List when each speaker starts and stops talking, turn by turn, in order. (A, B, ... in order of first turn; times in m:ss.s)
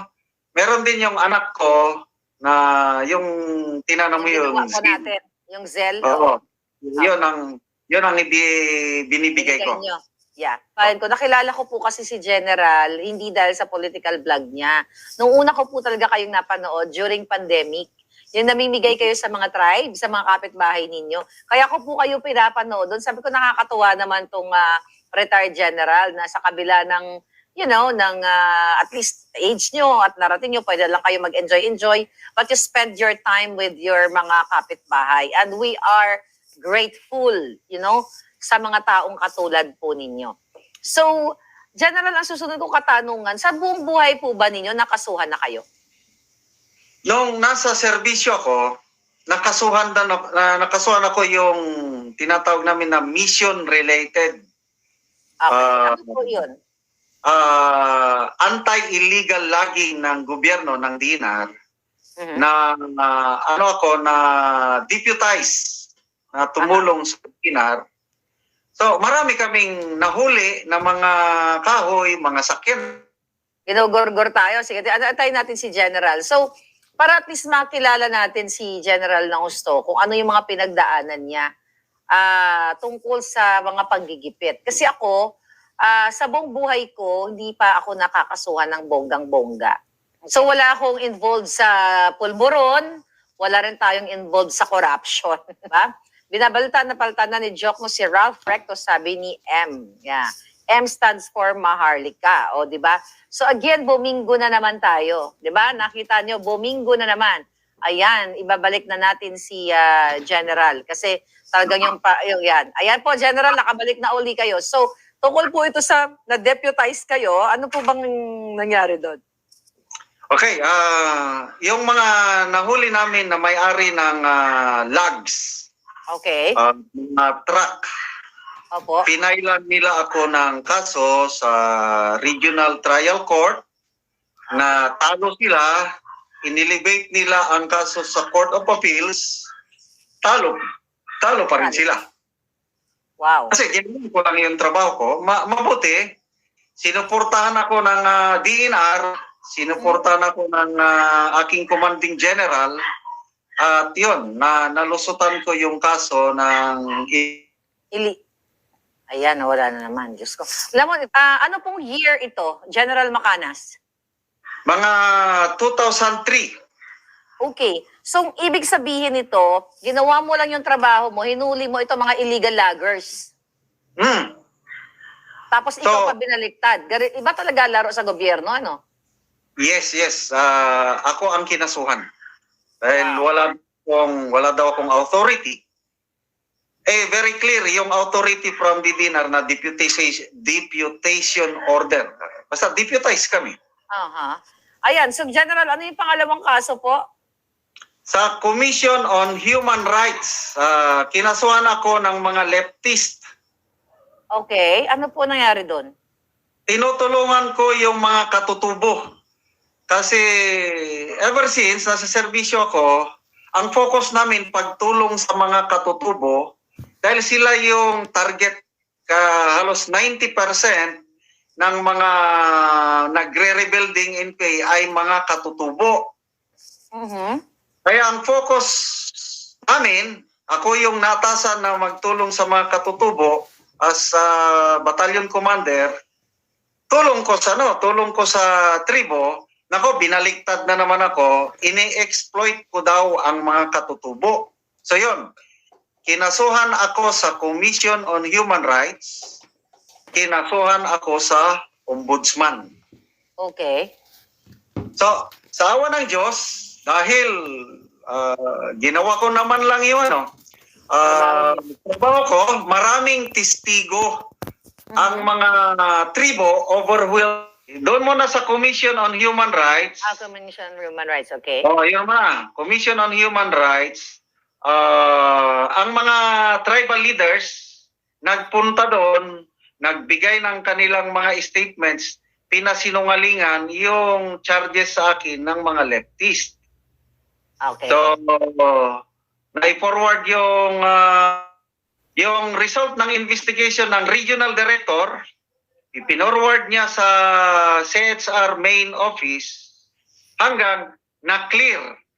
0:00.6-0:01.8 A
0:02.4-0:03.3 A
0:03.9-0:05.0 A
0:04.2-0:06.3 B
0:06.0-0:08.5 A
0:09.1-0:09.8 A
0:09.4-0:27.0 B
0:27.6-0:40.3 B
0:41.8-0:45.6 B
0:47.1-0:48.6 A
0:49.3-0:51.6 A
0:52.2-0:54.3 A
0:55.4-0:56.5 B
0:55.5-0:56.3 A
0:57.3-1:01.5 A
1:02.2-1:02.4 B
1:02.4-1:04.2 A
1:04.9-1:07.8 A
1:08.8-1:13.0 A
1:13.7-1:16.4 B
1:17.0-1:21.4 B
1:22.1-1:25.2 B
1:25.8-1:29.7 B
1:30.3-1:32.8 B
1:33.4-1:59.2 B
2:00.3-2:05.6 A
2:06.1-2:06.5 B
2:06.6-2:07.8 A
2:08.7-2:09.0 B
2:09.0-2:13.6 A
2:14.5-2:14.8 B
2:14.5-2:15.8 A
2:16.4-2:19.4 A
2:20.2-2:20.6 A
2:21.2-2:22.0 A
2:21.6-2:21.9 B
2:23.2-2:23.6 B
2:23.5-2:26.0 A
2:26.8-2:32.7 A
2:29.8-2:30.1 B
2:33.6-2:37.4 A
2:39.1-2:43.7 B
2:44.7-2:46.5 A
2:47.4-2:53.3 B
2:54.0-2:54.3 A
2:55.5-2:58.8 B
2:55.8-2:56.1 A
2:59.6-3:02.0 A
3:02.8-3:05.6 A
3:03.0-3:03.2 B
3:06.9-3:13.5 A
3:13.9-3:17.0 B
3:18.1-3:23.2 A
3:24.4-3:25.9 B
3:26.7-3:29.0 A
3:29.9-3:33.0 A
3:33.6-3:36.4 A
3:37.0-3:40.9 A
3:41.6-3:46.0 A
3:46.9-3:47.4 B
3:47.8-3:55.9 A
3:56.9-4:05.2 A
4:06.0-4:09.3 A
4:10.1-4:12.7 A
4:13.4-4:13.8 B
4:15.0-4:20.2 A
4:20.9-4:24.2 A
4:21.1-4:21.6 B
4:24.9-4:25.3 B
4:25.0-4:30.0 A
4:30.0-4:31.6 B
4:31.6-4:34.1 A
4:34.7-4:37.6 A
4:38.2-4:39.2 A
4:39.8-4:46.5 A
4:47.6-4:48.1 B
4:47.9-4:49.0 A
4:49.6-4:51.5 A
4:52.2-4:55.1 A
4:55.9-4:59.6 A
5:00.4-5:01.8 A